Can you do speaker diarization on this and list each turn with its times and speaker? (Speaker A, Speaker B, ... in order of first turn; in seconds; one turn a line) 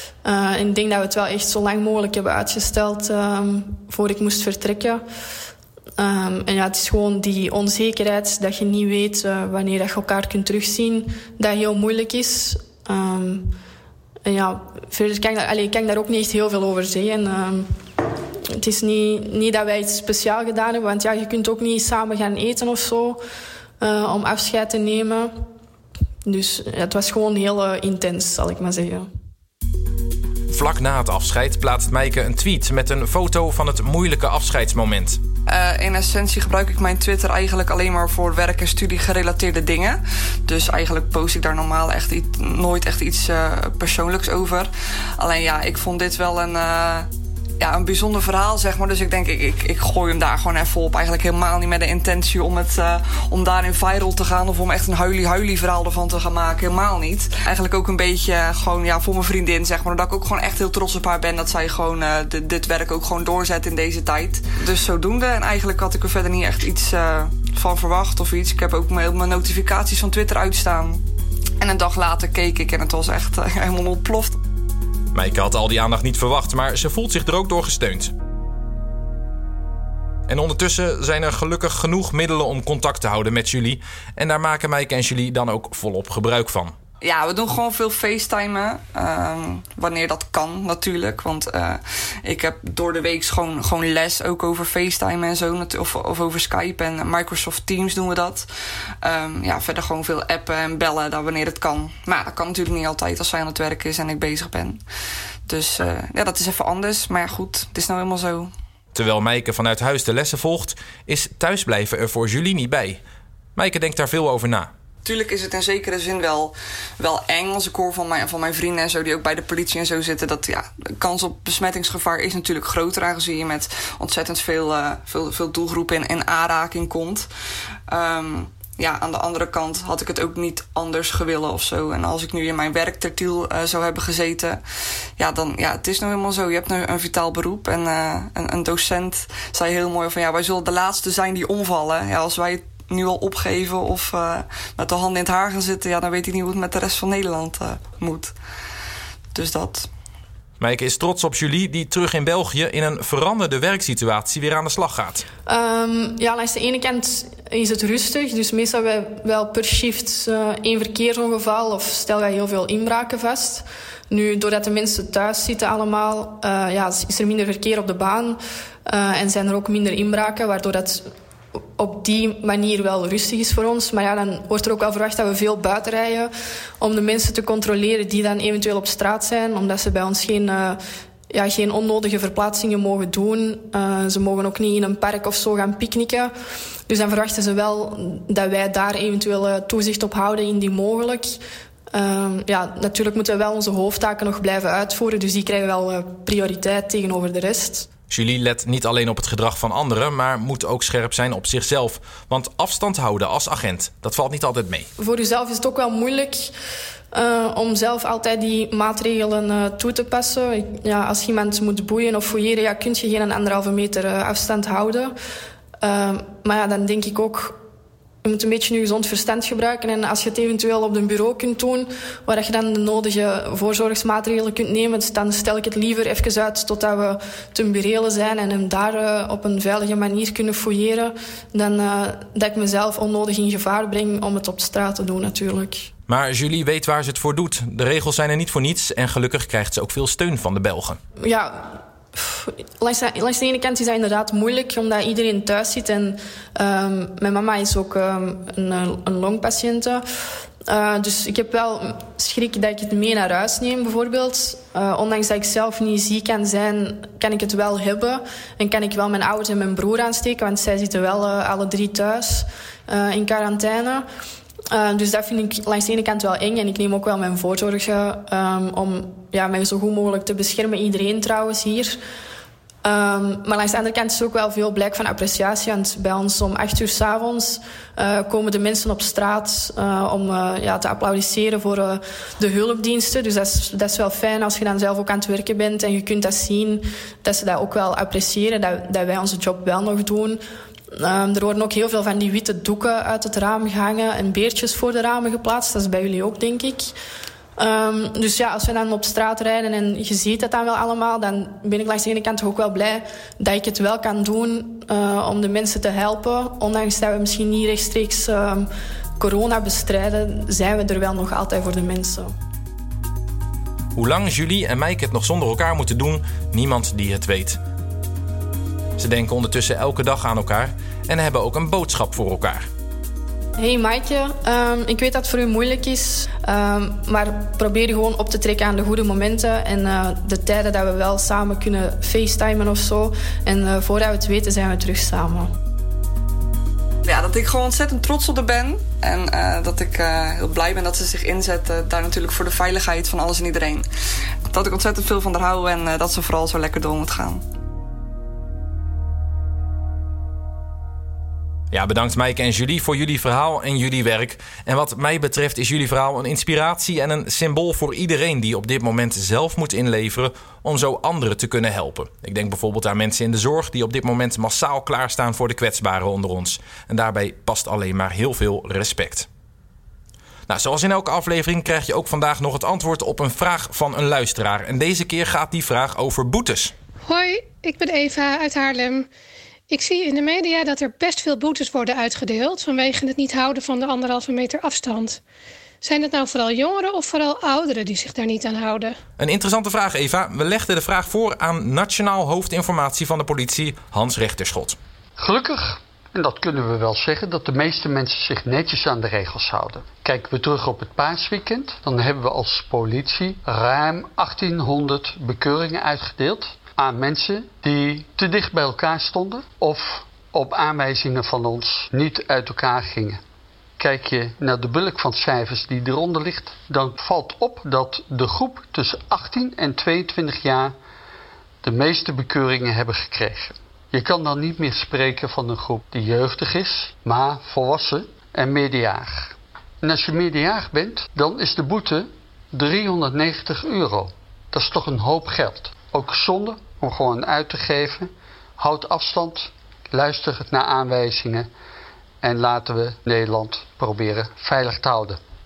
Speaker A: 0.2-5.0
Speaker A: 6.0-13.5
Speaker A: 14.2-17.7
Speaker A: 18.5-23.2
Speaker A: 23.8-25.3
Speaker A: 26.2-29.1
Speaker B: 30.5-35.2
Speaker C: 35.5-47.1
Speaker C: 47.6-71.0
Speaker C: 71.6-74.4
Speaker B: 75.1-78.1
Speaker B: 80.3-86.8
Speaker C: 87.0-98.5
Speaker C: 99.0-104.8
Speaker C: 105.5-108.5
Speaker B: 108.9-113.0
Speaker B: 113.5-114.7
Speaker C: 115.0-127.3
Speaker C: 127.9-134.6
Speaker C: 135.2-148.3
Speaker C: 149.3-149.9
Speaker B: 150.6-155.2
Speaker A: 155.4-171.0
Speaker A: 171.8-180.8
Speaker A: 181.3-186.3
Speaker A: 186.9-191.4
Speaker A: 191.9-197.9
Speaker B: 198.1-204.9
Speaker A: 205.0-206.5
Speaker A: 207.1-215.1
Speaker A: 215.8-217.6
Speaker A: 218.2-235.9
Speaker B: 236.1-241.0
Speaker A: 241.2-250.0
Speaker A: 250.7-264.0
Speaker A: 264.7-272.0
Speaker A: 272.8-290.4
Speaker A: 290.9-296.9
Speaker A: 297.6-308.7
Speaker A: 309.2-312.3
Speaker B: 313.9-317.6
Speaker B: 319.0-322.7
Speaker A: 323.6-335.5
Speaker C: 337.0-343.9
Speaker C: 344.5-347.4
Speaker B: 351.7-369.3
Speaker B: 370.5-376.7
Speaker D: 377.1-379.1
Speaker D: 379.7-385.2
Speaker D: 385.8-388.9
Speaker B: 389.2-394.8
Speaker E: 395.2-413.2
Speaker E: 413.8-420.7
Speaker E: 421.6-441.5
Speaker E: 442.2-445.2